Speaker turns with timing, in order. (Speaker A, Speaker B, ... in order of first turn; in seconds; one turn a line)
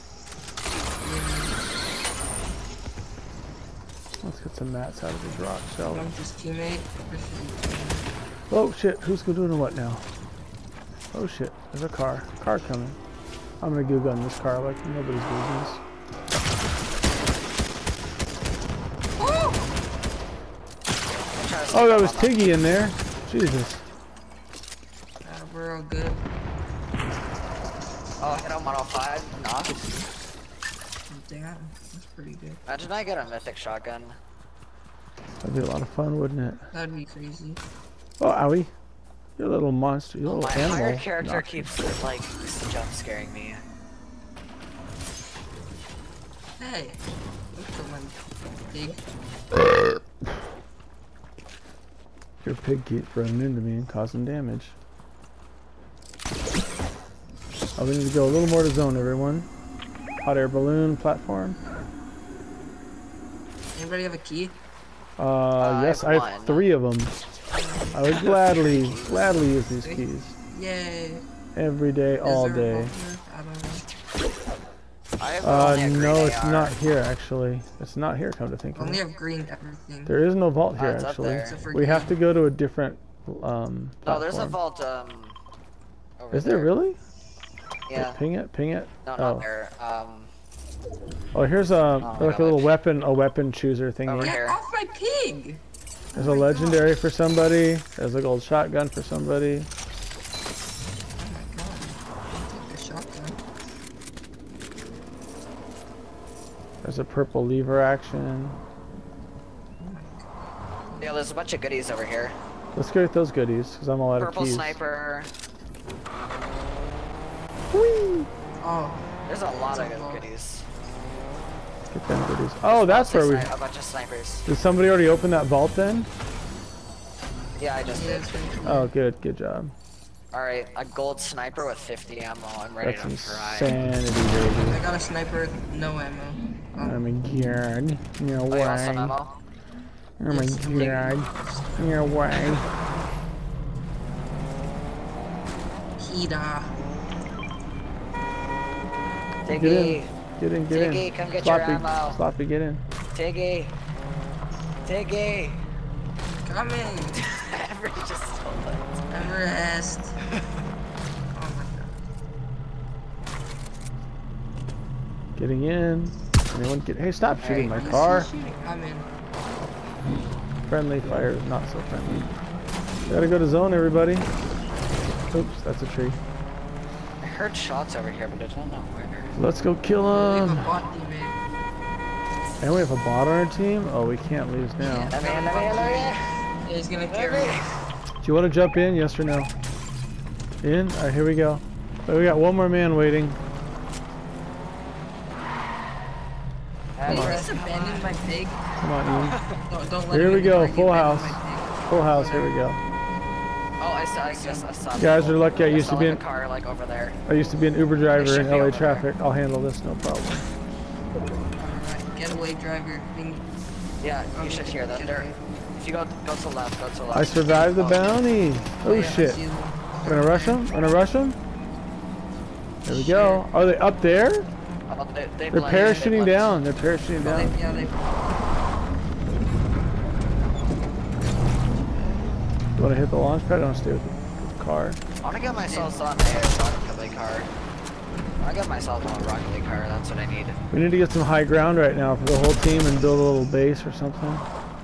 Speaker A: 1.0-1.6
Speaker B: 4.2-6.1
Speaker A: 5.9-8.1
Speaker B: 8.5-10.1
Speaker B: 11.1-13.0
Speaker B: 13.6-15.8
Speaker A: 19.2-19.7
Speaker C: 21.4-22.4
Speaker B: 21.7-23.8
Speaker A: 25.2-26.3
Speaker C: 28.2-29.9
Speaker A: 31.1-32.6
Speaker C: 32.7-34.2
Speaker B: 35.4-36.7
Speaker A: 36.7-37.6
Speaker B: 38.2-38.7
Speaker B: 39.4-41.7
Speaker C: 40.2-43.6
Speaker A: 46.6-47.0
Speaker A: 47.5-48.2
Speaker A: 48.7-49.0
Speaker B: 52.4-54.8
Speaker B: 57.8-59.5
Speaker B: 60.2-61.6
Speaker A: 63.7-64.6
Speaker B: 65.2-67.1
Speaker C: 65.6-66.7
Speaker A: 67.5-68.0
Speaker B: 67.9-70.3
Speaker C: 68.2-69.1
Speaker A: 69.8-71.2
Speaker B: 71.5-72.9
Speaker A: 72.2-73.9
Speaker C: 75.2-76.7
Speaker B: 75.4-79.0
Speaker A: 78.8-80.2
Speaker B: 80.1-84.6
Speaker C: 80.8-81.6
Speaker A: 81.4-82.1
Speaker C: 84.0-85.4
Speaker C: 86.2-86.7
Speaker B: 86.3-87.0
Speaker C: 87.9-88.2
Speaker B: 87.9-89.5
Speaker C: 89.0-90.3
Speaker B: 91.3-94.4
Speaker C: 92.0-92.8
Speaker C: 94.0-94.6
Speaker A: 94.2-96.9
Speaker B: 96.1-99.7
Speaker A: 101.2-103.4
Speaker B: 106.8-108.6
Speaker A: 109.8-110.2
Speaker C: 111.0-112.3
Speaker B: 112.7-114.8
Speaker C: 114.2-115.3
Speaker B: 117.7-118.3
Speaker A: 118.6-119.1
Speaker C: 119.3-120.7
Speaker A: 119.7-120.3
Speaker B: 121.9-123.5
Speaker C: 122.7-124.5
Speaker B: 124.5-126.1
Speaker C: 127.6-128.4
Speaker A: 127.9-128.9
Speaker B: 128.7-129.7
Speaker C: 130.3-133.8
Speaker B: 132.8-134.8
Speaker A: 134.6-137.0
Speaker B: 136.8-139.2
Speaker C: 138.5-139.3
Speaker B: 140.2-142.7
Speaker A: 140.3-141.9
Speaker A: 146.0-146.8
Speaker C: 149.4-150.1
Speaker B: 149.5-152.8
Speaker C: 150.7-152.2
Speaker C: 153.1-153.7
Speaker C: 154.8-155.7
Speaker A: 156.2-157.2
Speaker C: 157.2-158.9
Speaker A: 159.1-160.2
Speaker A: 161.3-162.0
Speaker B: 165.4-168.3
Speaker C: 167.4-168.0
Speaker A: 167.4-169.1
Speaker B: 170.7-172.3
Speaker B: 173.1-174.3
Speaker B: 175.3-176.2
Speaker C: 177.2-179.4
Speaker B: 179.4-180.8
Speaker A: 180.1-181.4
Speaker B: 182.6-185.1
Speaker A: 184.8-187.7
Speaker C: 185.1-186.3
Speaker C: 187.1-187.7
Speaker B: 188.2-189.5
Speaker B: 190.6-193.4
Speaker C: 197.0-198.1
Speaker B: 197.1-197.4
Speaker A: 197.1-202.6
Speaker B: 198.8-199.4
Speaker C: 199.3-199.6
Speaker B: 200.1-202.8
Speaker C: 203.8-207.2
Speaker A: 204.2-204.8
Speaker B: 205.0-206.2
Speaker B: 207.3-210.5
Speaker C: 208.2-209.1
Speaker A: 211.6-213.5
Speaker C: 214.0-218.2
Speaker A: 214.3-215.6
Speaker B: 217.1-219.4
Speaker A: 218.8-220.7
Speaker B: 220.0-221.4
Speaker A: 222.9-223.5
Speaker B: 222.9-224.5
Speaker C: 224.9-226.6
Speaker B: 225.5-227.6
Speaker A: 225.6-226.1
Speaker A: 227.2-228.2
Speaker B: 232.8-235.0
Speaker C: 235.2-237.5
Speaker A: 235.6-236.2
Speaker C: 238.4-240.6
Speaker B: 240.7-244.5